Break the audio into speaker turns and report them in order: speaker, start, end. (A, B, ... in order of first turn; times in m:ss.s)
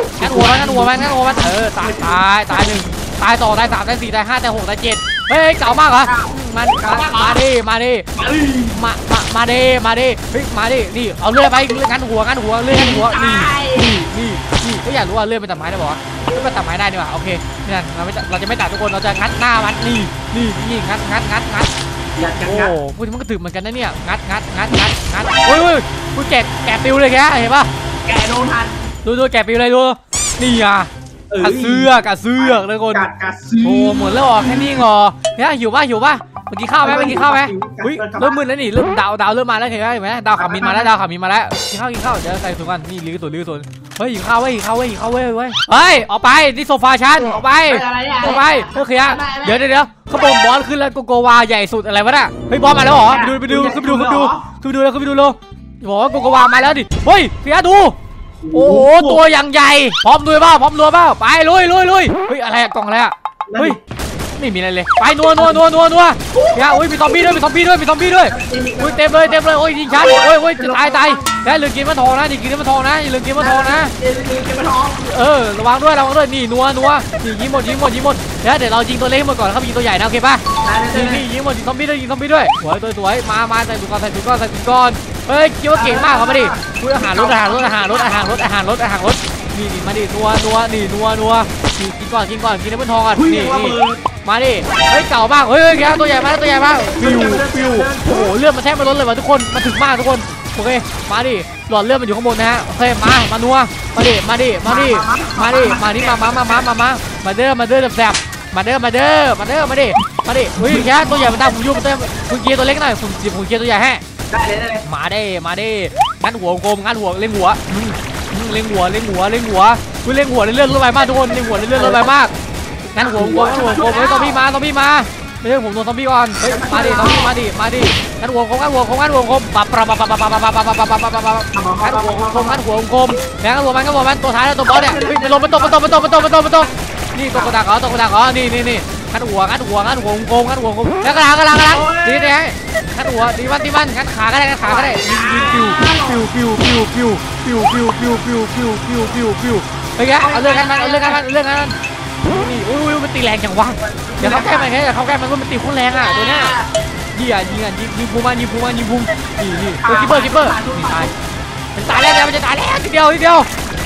0:00.2-0:02.9 A
0:00.2-0:08.1 B
0:06.0-0:07.4 A
0:08.1-0:08.8 A
0:08.7-0:21.7 B
0:12.7-0:13.9 A
0:22.2-0:22.8 A
0:22.4-0:27.7 B
0:28.0-0:28.9 A
0:29.0-0:30.9 B
0:31.3-0:34.8 A
0:31.4-0:33.1 B
0:33.6-0:58.0 B
0:36.8-0:38.4 A
0:40.4-0:40.9 A
0:47.2-0:49.6 A
0:52.6-0:54.4 A
0:58.4-0:59.2 A
0:58.5-1:03.8 B
1:03.5-1:03.8 A
1:04.4-1:13.9 B
1:06.3-1:07.4 A
1:08.3-1:11.3 A
1:13.4-1:15.2 A
1:15.0-1:54.0 B
1:20.6-1:21.2 A
1:25.7-1:28.4 A
1:33.1-1:34.0 A
1:36.9-1:38.3 A
1:44.6-1:46.7 A
1:50.6-1:51.5 A
1:54.3-1:54.8 A
1:54.8-2:02.3 B
2:01.7-2:02.1 A
2:02.9-2:36.5 B
2:03.0-2:04.4 A
2:06.4-2:07.4 A
2:11.5-2:12.6 A
2:14.6-2:16.3 A
2:21.6-2:22.4 A
2:24.6-2:26.2 A
2:30.2-2:31.2 A
2:33.8-2:34.7 A
2:35.9-2:36.7 A
2:37.1-2:41.1 B
2:39.8-2:41.2 A
2:41.7-2:43.5 B